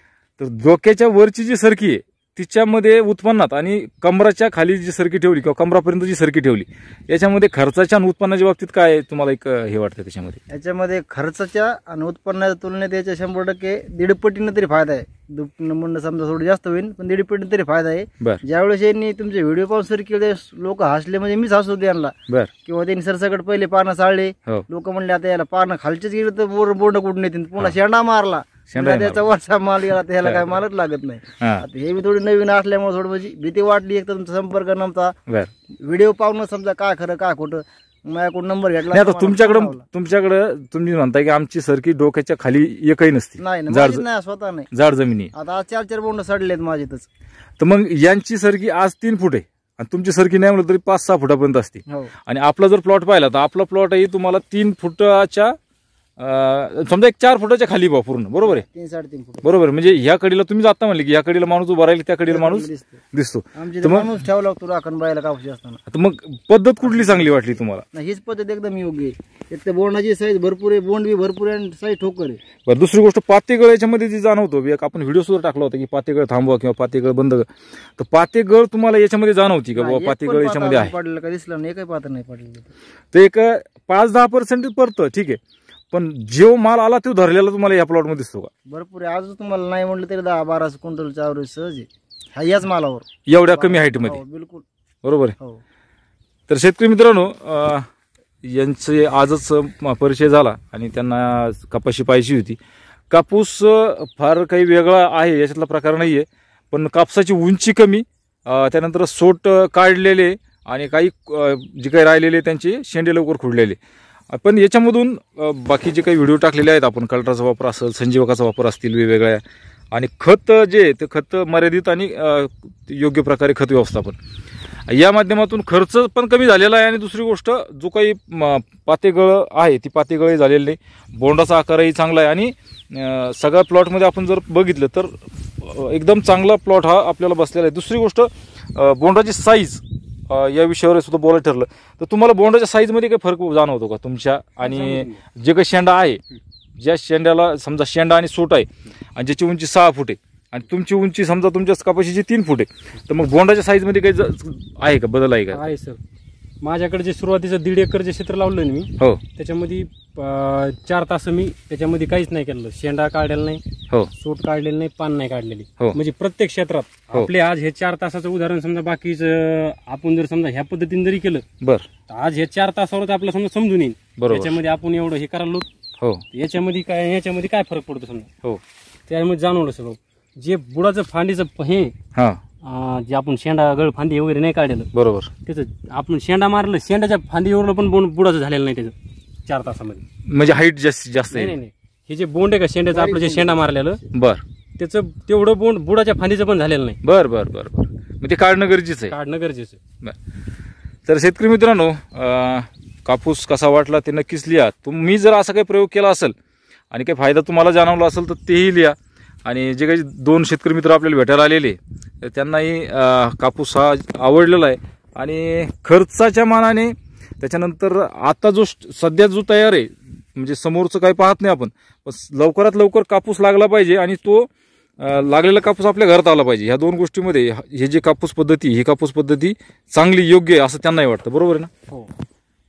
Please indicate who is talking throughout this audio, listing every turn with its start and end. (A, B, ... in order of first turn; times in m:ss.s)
0:00.4-0:10.4 A
0:10.5-0:22.1 B
0:22.6-0:35.1 B
0:28.7-0:29.2 A
0:30.2-0:30.6 A
0:31.4-0:31.6 A
0:35.3-0:35.5 A
0:35.8-0:39.8 B
0:38.9-0:44.0 A
0:43.4-0:44.7 B
0:44.7-0:45.3 A
0:45.3-0:47.1 B
0:47.6-0:55.6 A
0:56.2-0:58.6 A
0:58.4-0:59.5 B
0:59.4-1:04.1 A
1:02.3-1:03.0 B
1:03.6-1:05.8 B
1:05.9-1:07.8 A
1:06.8-1:07.2 B
1:07.9-1:12.4 B
1:12.7-1:20.9 A
1:19.8-1:22.7 B
1:23.1-1:25.4 A
1:25.9-1:28.5 A
1:28.7-1:34.6 B
1:33.3-1:34.2 A
1:35.0-1:35.4 A
1:36.5-1:37.9 A
1:38.4-1:42.6 A
1:43.1-1:53.8 A
1:54.3-2:04.2 A
2:04.9-2:26.2 A
2:24.6-2:25.2 C
2:26.8-2:35.7 A
2:35.5-2:36.0 C
2:36.6-2:43.6 C
2:44.2-2:51.4 C
2:51.6-2:51.9 A
2:52.1-2:55.7 C
2:54.2-2:54.6 A
2:56.3-2:58.3 C
2:59.1-3:01.9 C
3:02.2-3:02.4 A
3:02.6-3:04.9 C
3:04.9-3:05.3 A
3:05.4-3:09.0 C
3:09.5-3:10.0 C
3:10.3-3:11.6 A
3:11.3-3:14.0 C
3:12.9-3:13.6 B
3:14.1-3:14.4 A
3:14.8-3:17.0 C
3:17.0-3:19.2 A
3:19.1-3:19.8 C
3:21.1-3:26.3 A
3:26.9-3:51.7 A